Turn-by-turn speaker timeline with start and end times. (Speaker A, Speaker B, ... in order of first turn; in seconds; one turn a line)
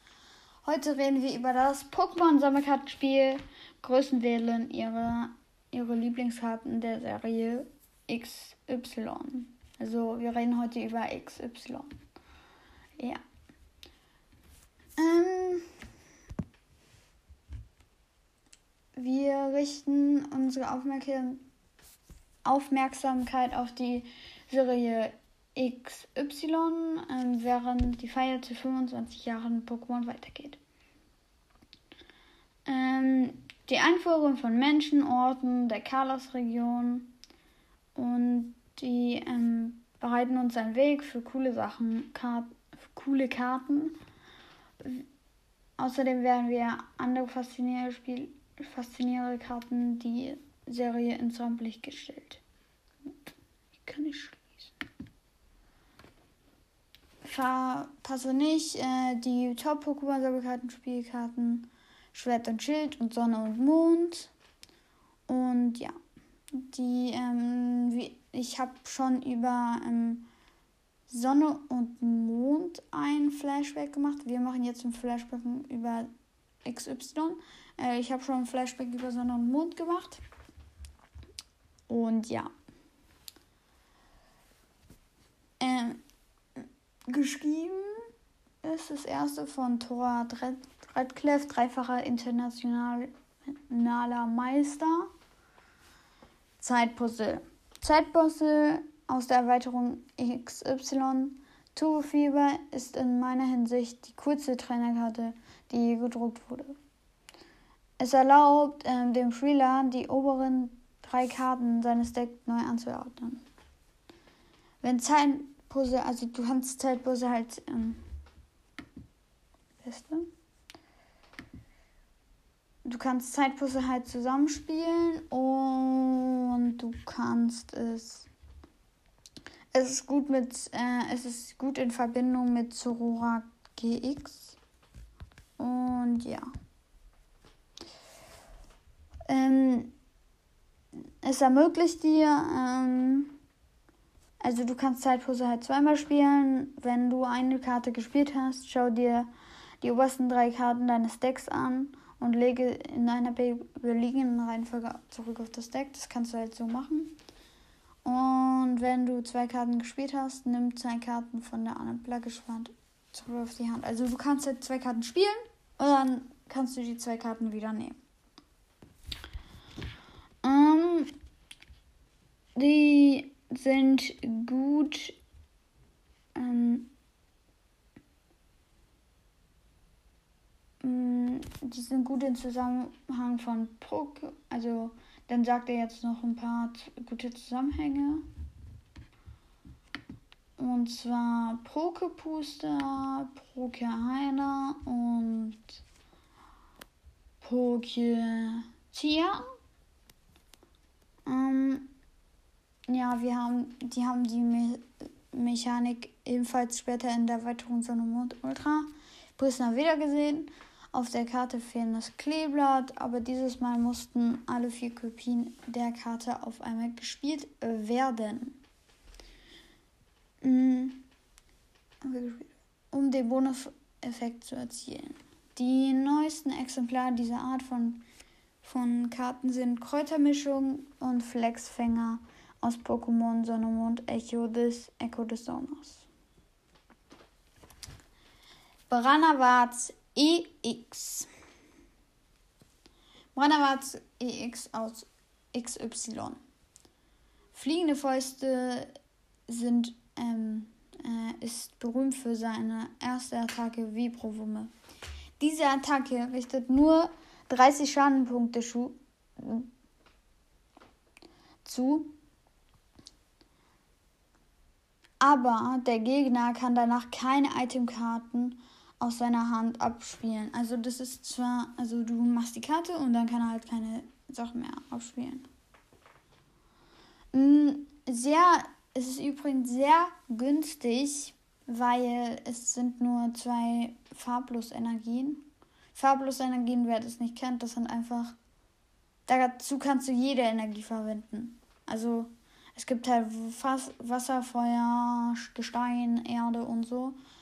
Speaker A: 0.6-11.9
Speaker A: 13.0-13.2
Speaker A: 15.0-15.7
Speaker A: 18.9-21.4
Speaker A: 22.4-30.6
Speaker A: 32.7-37.1
Speaker A: 38.0-44.0
Speaker A: 45.8-52.4
Speaker A: 53.8-54.7
Speaker A: 57.2-64.3
Speaker A: 65.3-65.9
Speaker A: 66.5-70.3
Speaker A: 71.1-76.1
Speaker A: 76.7-80.2
Speaker A: 81.9-82.5
Speaker A: 85.6-86.0
Speaker A: 86.6-88.1
Speaker A: 88.6-95.1
Speaker A: 96.6-106.8
Speaker A: 108.0-113.4
Speaker A: 114.8-118.0
Speaker A: 119.8-120.3
Speaker A: 122.8-128.3
Speaker A: 129.7-134.6
Speaker A: 135.6-136.4
Speaker A: 139.3-139.9
Speaker A: 141.2-143.3
Speaker A: 144.4-149.3
Speaker A: 149.8-157.2
Speaker A: 158.0-168.0
Speaker A: 170.4-171.1
Speaker A: 172.6-175.2
Speaker A: 176.3-176.9
Speaker A: 180.8-188.2
Speaker A: 190.6-195.8
Speaker A: 197.4-199.4
Speaker A: 201.2-201.9
Speaker A: 202.9-218.6
Speaker A: 220.4-221.0
Speaker A: 222.0-228.0
Speaker A: 228.6-236.1
Speaker A: 238.9-241.3
Speaker A: 243.3-246.4
Speaker A: 247.5-248.9
Speaker A: 249.5-254.7
Speaker A: 255.4-259.7
Speaker A: 261.6-262.1
Speaker A: 265.2-275.5
Speaker A: 277.3-288.4
Speaker A: 289.3-297.2